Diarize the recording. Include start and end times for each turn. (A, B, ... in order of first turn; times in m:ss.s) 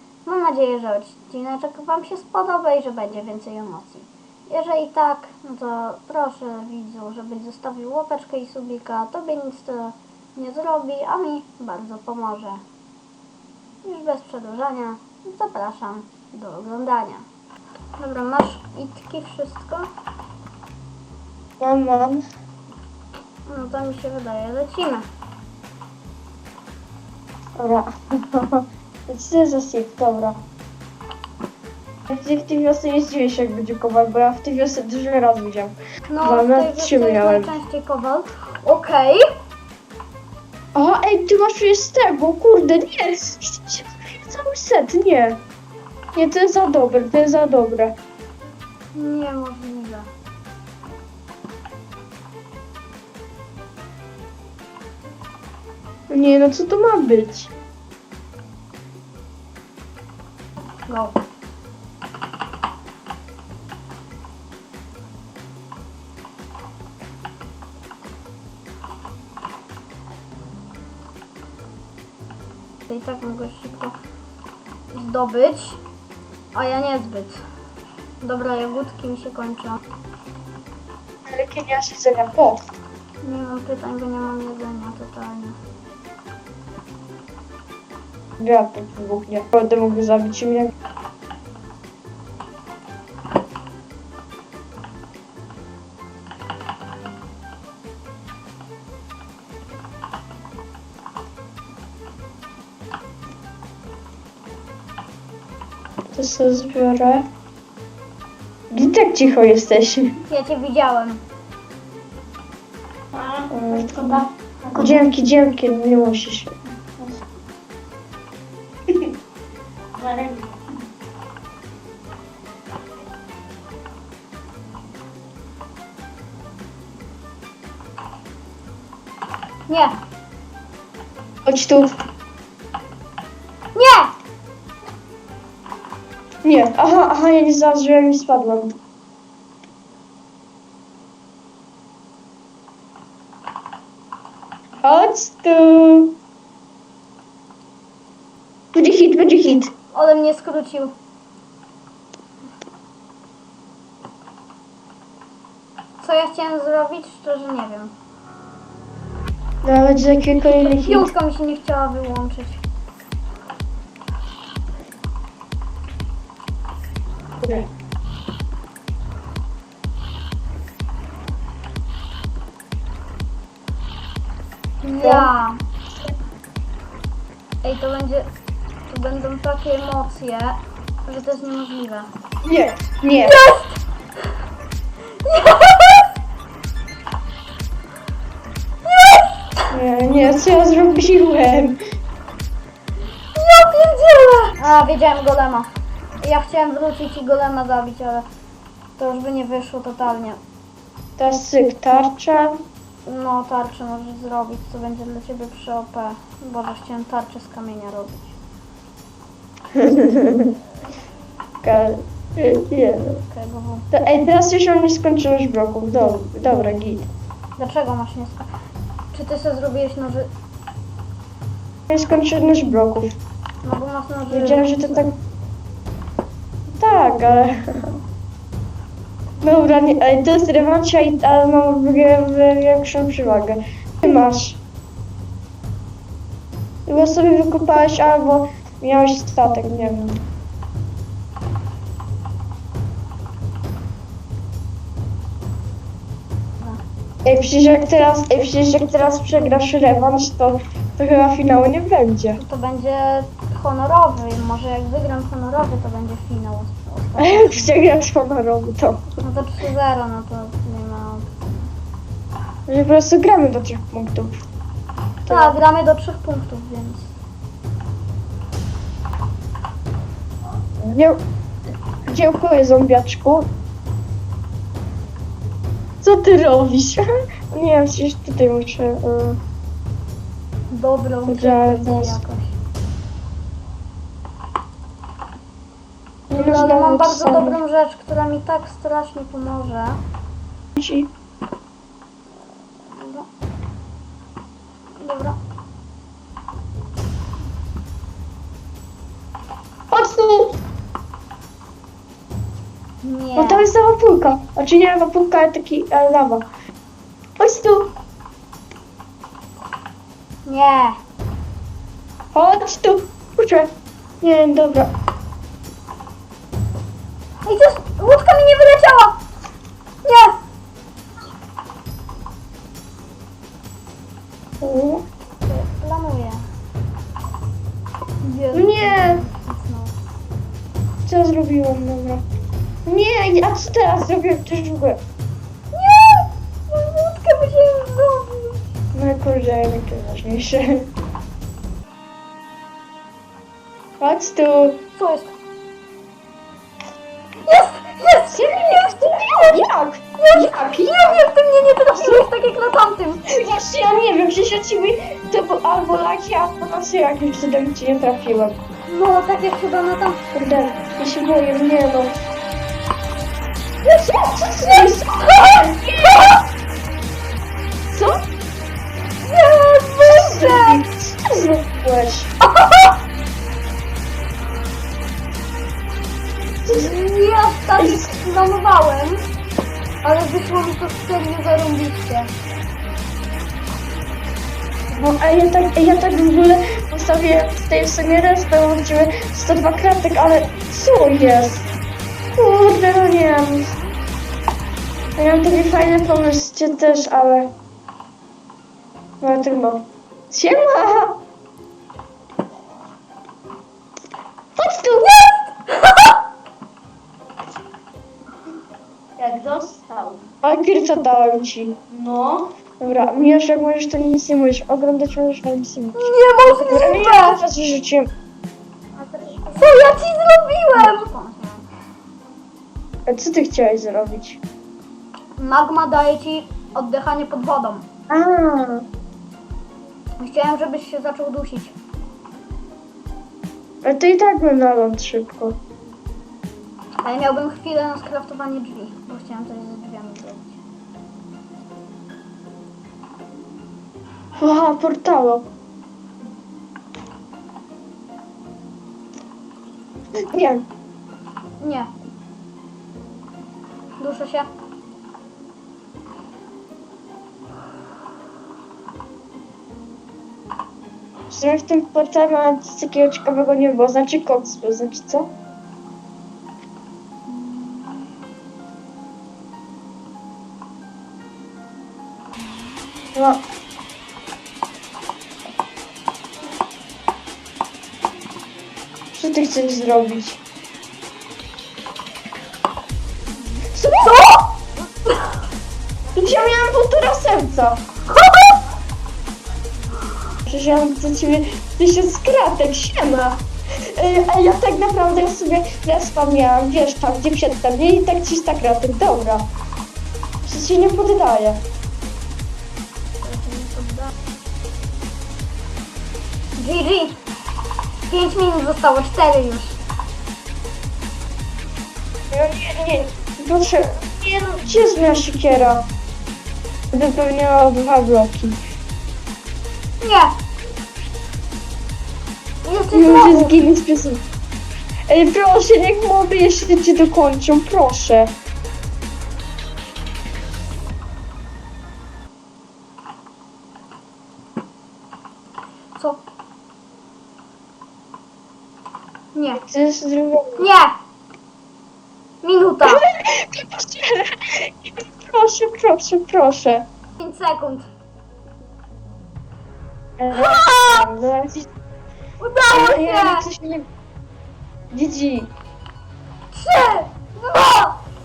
0:00.2-0:12.6 A
0:13.8-0:17.2 A
0:18.0-0:19.9 A
0:21.6-0:22.2 B
0:23.5-0:25.1 A
0:27.6-0:30.4 B
0:32.1-0:37.6 B
0:36.1-0:39.2 A
0:40.7-0:45.4 B
0:46.1-0:48.0 B
0:48.9-0:50.1 A
0:56.1-0:57.5 B
1:00.9-1:01.2 A
1:12.9-1:14.0 A
1:14.9-1:15.8 A
1:16.5-1:17.4 A
1:18.2-1:19.8 A
1:21.3-1:22.6 B
1:23.2-1:25.6 A
1:28.4-1:30.7 B
1:46.1-1:47.3 B
1:48.7-1:50.1 B
1:50.3-1:51.2 A
1:53.1-1:54.8 C
1:53.5-1:54.2 B
1:54.7-1:56.6 B
2:00.0-2:00.6 C
2:09.7-2:10.0 A
2:11.4-2:11.9 B
2:13.7-2:14.1 A
2:16.4-2:18.8 B
2:24.8-2:26.2 B
2:28.7-2:29.7 B
2:29.9-2:30.9 A
2:36.0-2:37.9 A
2:39.6-2:41.1 B
2:40.6-2:42.6 A
2:47.4-2:47.7 B
2:54.8-2:55.6 A
2:55.0-2:55.3 B
2:57.6-2:58.3 A
2:58.9-3:02.1 A
3:02.4-3:03.4 B
3:03.2-3:03.8 A
3:05.2-3:06.1 A
3:08.8-3:09.7 A
3:09.7-3:11.8 B
3:13.3-3:18.2 A
3:19.0-3:20.4 A
3:21.2-3:22.6 B
3:23.0-3:28.4 A
3:29.7-3:30.6 B
3:31.6-3:33.2 B
3:33.3-3:33.9 A
3:33.9-3:37.1 B
3:37.6-3:38.5 A
3:39.1-3:40.3 A
3:41.9-3:43.1 B
3:43.6-3:45.0 A
3:44.3-3:45.2 B
3:46.7-3:48.0 B
3:49.4-3:54.6 B
3:56.9-4:00.2 B
4:07.2-4:12.4 B
4:12.4-4:17.7 A
4:17.2-4:19.1 B
4:19.2-4:21.7 A
4:22.7-4:24.3 B
4:25.2-4:25.6 B
4:25.3-4:27.1 A
4:30.8-4:31.2 B
4:32.1-4:33.5 B
4:36.0-4:39.4 B
4:40.7-4:42.6 A
4:41.3-4:42.2 B
4:46.3-4:50.0 A
4:46.3-4:47.6 B
4:50.8-4:51.1 B
4:52.8-4:53.3 A
4:55.0-4:55.4 A
4:59.9-5:00.6 B
5:03.0-5:03.7 A
5:03.4-5:06.4 B
5:07.4-5:07.9 B
5:10.4-5:11.0 A
5:12.3-5:14.9 B
5:17.4-5:19.2 A
5:20.0-5:20.4 A
5:24.6-5:25.0 B
5:25.4-5:26.4 A
5:28.2-5:30.0 A
5:28.5-5:29.2 B
5:31.0-5:32.2 B
5:32.8-5:35.0 B
5:35.7-5:38.6 A
5:38.9-5:40.9 B
5:44.0-5:44.8 B
5:45.0-5:45.3 A
5:47.4-5:48.7 A
5:48.3-5:51.3 B
5:50.2-5:53.2 A
5:51.9-5:52.3 B
5:53.3-5:58.6 B
5:58.9-6:00.2 A
6:00.3-6:02.2 B
6:03.8-6:06.2 A
6:04.3-6:06.3 B
6:07.9-6:08.2 B
6:09.2-6:10.8 A
6:10.0-6:12.3 B
6:12.4-6:13.0 A
6:16.6-6:16.9 B
6:16.7-6:19.3 A
6:17.8-6:18.1 B
6:20.0-6:22.3 A
6:24.9-6:31.7 B
6:32.4-6:33.8 B
6:35.2-6:37.5 B
6:39.2-6:41.2 B
6:44.6-6:45.4 B
6:45.6-6:46.2 A
6:49.2-6:50.2 C
6:50.4-6:52.0 B
6:51.9-6:52.5 C
6:52.8-6:58.1 B
6:56.0-6:57.4 A
6:59.4-7:01.7 A
7:03.0-7:04.4 B
7:05.4-7:07.8 A
7:08.1-7:08.8 B
7:10.2-7:11.8 A
7:13.8-7:15.6 B
7:17.0-7:20.6 A
7:24.4-7:25.5 B
7:30.3-7:30.6 B
7:31.6-7:31.9 A
7:34.0-7:34.5 A
7:41.3-7:45.3 B
7:47.4-7:47.8 A
7:53.1-7:53.4 B
7:59.1-8:00.4 B
8:03.7-8:04.4 B
8:06.1-8:07.8 B
8:08.1-8:08.6 A
8:10.4-8:19.5 B
8:20.4-8:21.6 B
8:23.2-8:24.1 A
8:26.6-8:27.2 A
8:28.0-8:29.8 A
8:32.3-8:35.9 B
8:36.9-8:38.6 B
8:40.0-8:40.3 A
8:42.6-8:43.6 A
8:42.9-8:44.2 B
8:45.1-8:48.3 B
8:56.0-8:56.2 A
8:59.3-8:59.6 A
8:59.5-9:00.7 B
9:00.6-9:00.9 A
9:02.4-9:03.0 A
9:02.8-9:06.9 B
9:07.2-9:07.9 A
9:10.2-9:11.7 B
9:10.3-9:11.0 A
9:12.4-9:13.4 A
9:12.7-9:13.9 B
9:14.9-9:15.5 B
9:16.5-9:18.0 A